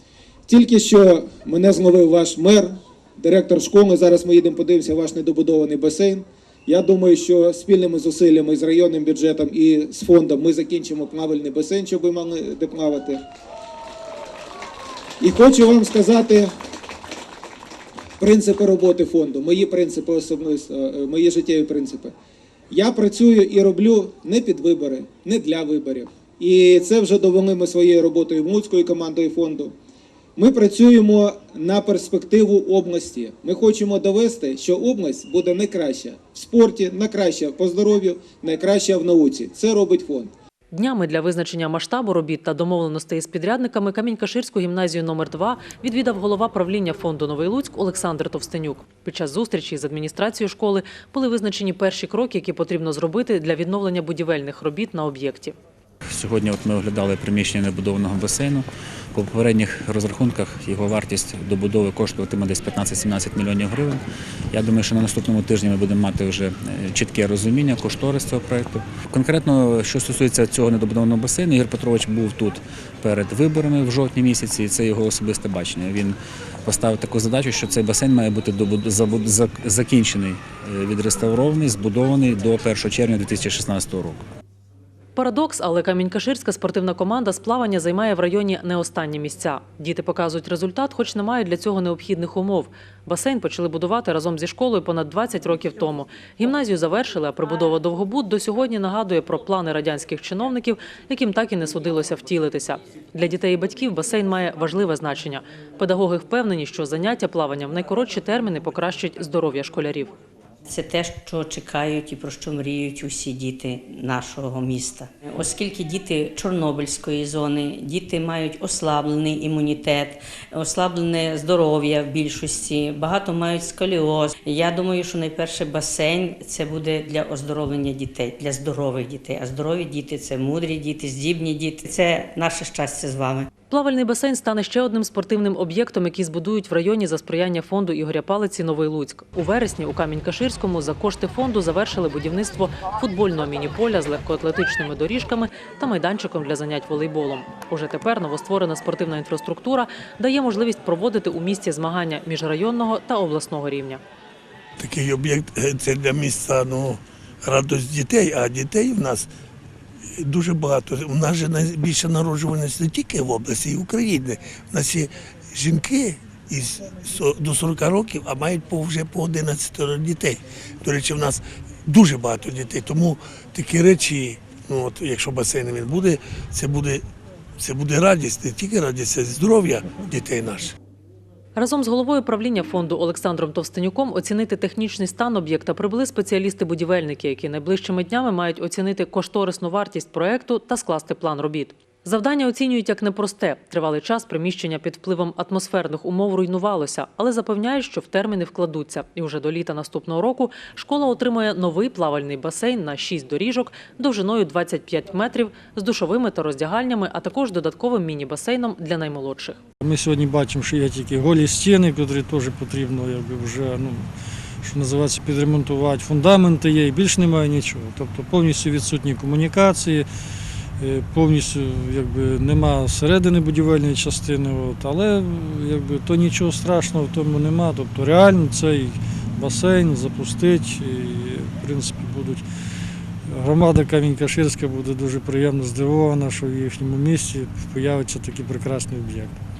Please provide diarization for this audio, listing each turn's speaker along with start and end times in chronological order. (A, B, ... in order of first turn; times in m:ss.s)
0:00.5-0:13.2 A
0:15.2-0:16.5 A
0:18.2-0:22.1 A
0:22.7-0:29.7 A
0:30.4-0:40.3 A
0:40.7-0:55.5 B
0:56.1-1:24.2 C
1:25.2-1:50.1 B
1:50.7-2:13.5 D
2:13.7-2:34.0 B
2:34.8-2:39.3 E
2:40.2-2:57.0 E
2:57.6-3:00.7 E
3:01.6-3:29.6 B
3:29.8-3:34.1 F
3:34.6-3:40.1 F
3:40.8-3:52.4 F
3:53.2-3:59.4 F